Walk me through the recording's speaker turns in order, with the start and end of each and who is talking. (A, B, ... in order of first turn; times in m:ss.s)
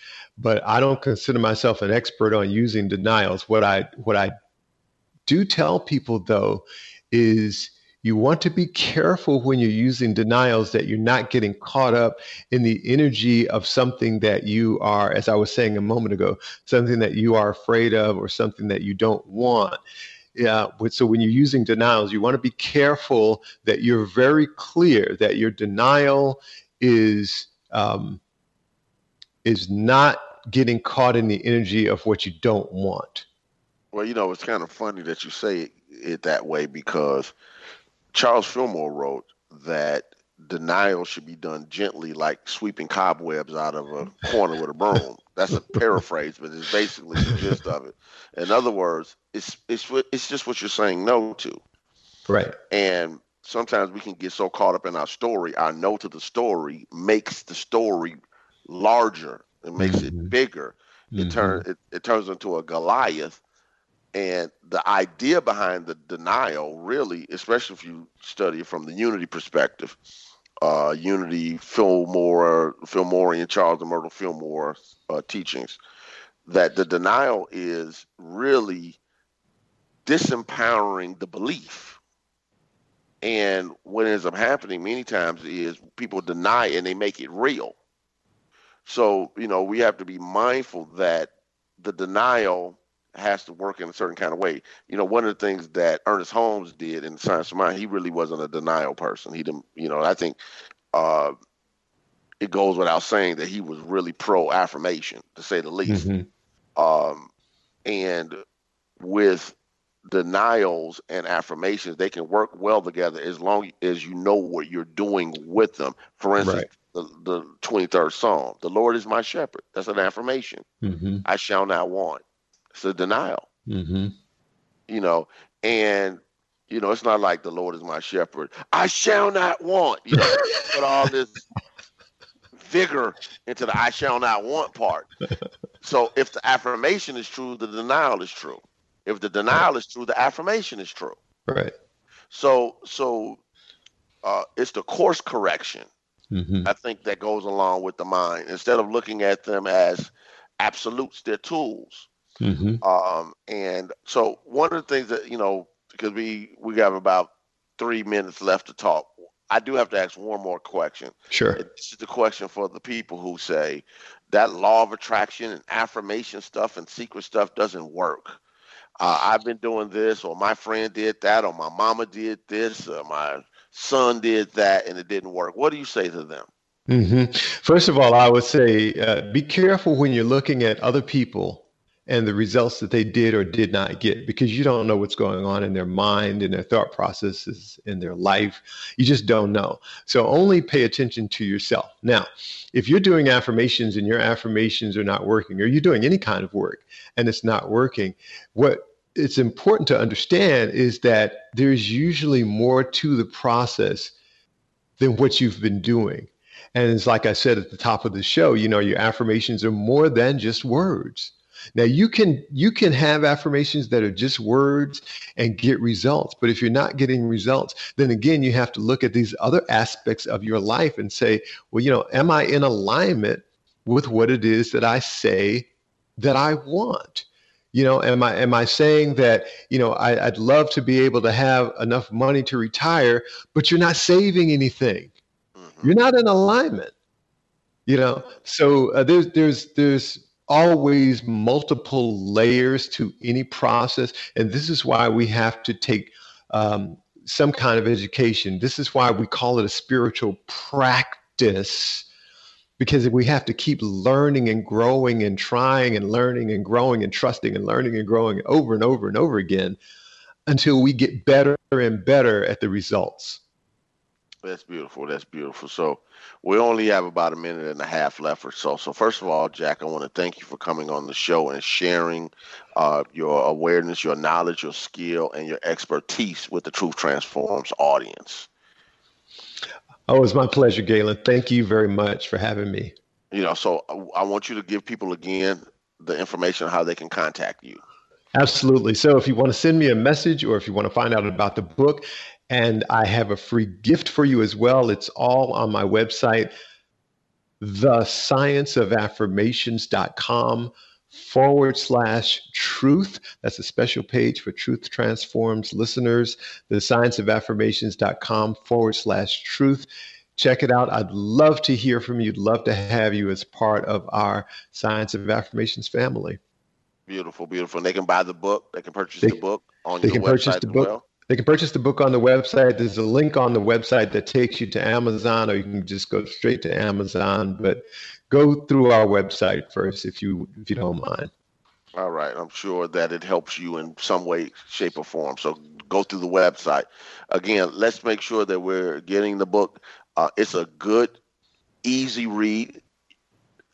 0:00.4-0:04.3 A
0:05.3-0:19.8 A
0:20.4-0:28.2 A
0:29.4-0:33.3 A
0:33.9-0:37.3 B
0:38.1-0:51.6 B
0:47.2-0:47.5 A
0:52.3-0:52.6 A
0:52.7-1:03.4 B
0:59.8-1:00.3 A
1:01.1-1:01.6 A
1:04.1-1:10.0 B
1:10.6-1:15.8 B
1:16.5-1:19.0 B
1:20.1-1:22.0 B
1:23.2-1:27.8 B
1:28.9-1:40.4 B
1:40.9-1:41.3 B
1:42.4-1:46.1 B
1:45.9-1:46.3 A
1:46.8-1:47.3 B
1:47.9-1:48.4 B
1:49.0-1:49.6 B
1:50.1-2:00.6 B
1:56.4-1:56.7 A
2:00.8-2:01.2 A
2:01.2-2:02.2 B
2:02.7-2:03.4 B
2:03.7-2:04.1 A
2:04.9-2:11.5 B
2:10.1-2:10.5 A
2:12.6-2:15.1 B
2:15.8-2:21.2 B
2:21.5-2:21.7 A
2:22.3-2:23.4 B
2:24.2-2:25.9 B
2:26.3-2:26.7 A
2:26.6-2:32.1 B
2:32.4-2:32.8 A
2:32.8-2:48.4 B
2:41.3-2:41.6 A
2:49.0-2:56.5 B
2:56.9-3:24.1 A
3:25.0-3:55.1 A
3:55.6-3:55.9 B
3:55.8-3:56.9 A
3:57.9-4:12.1 A
4:12.8-4:19.8 A
4:20.5-4:23.4 A
4:24.4-4:38.5 B
4:40.1-4:42.9 A
4:43.3-4:47.8 B
4:48.4-4:56.5 A
4:57.6-5:16.4 A
5:17.1-5:21.0 B
5:20.0-5:31.3 A
5:32.0-5:41.2 B
5:41.8-5:42.8 B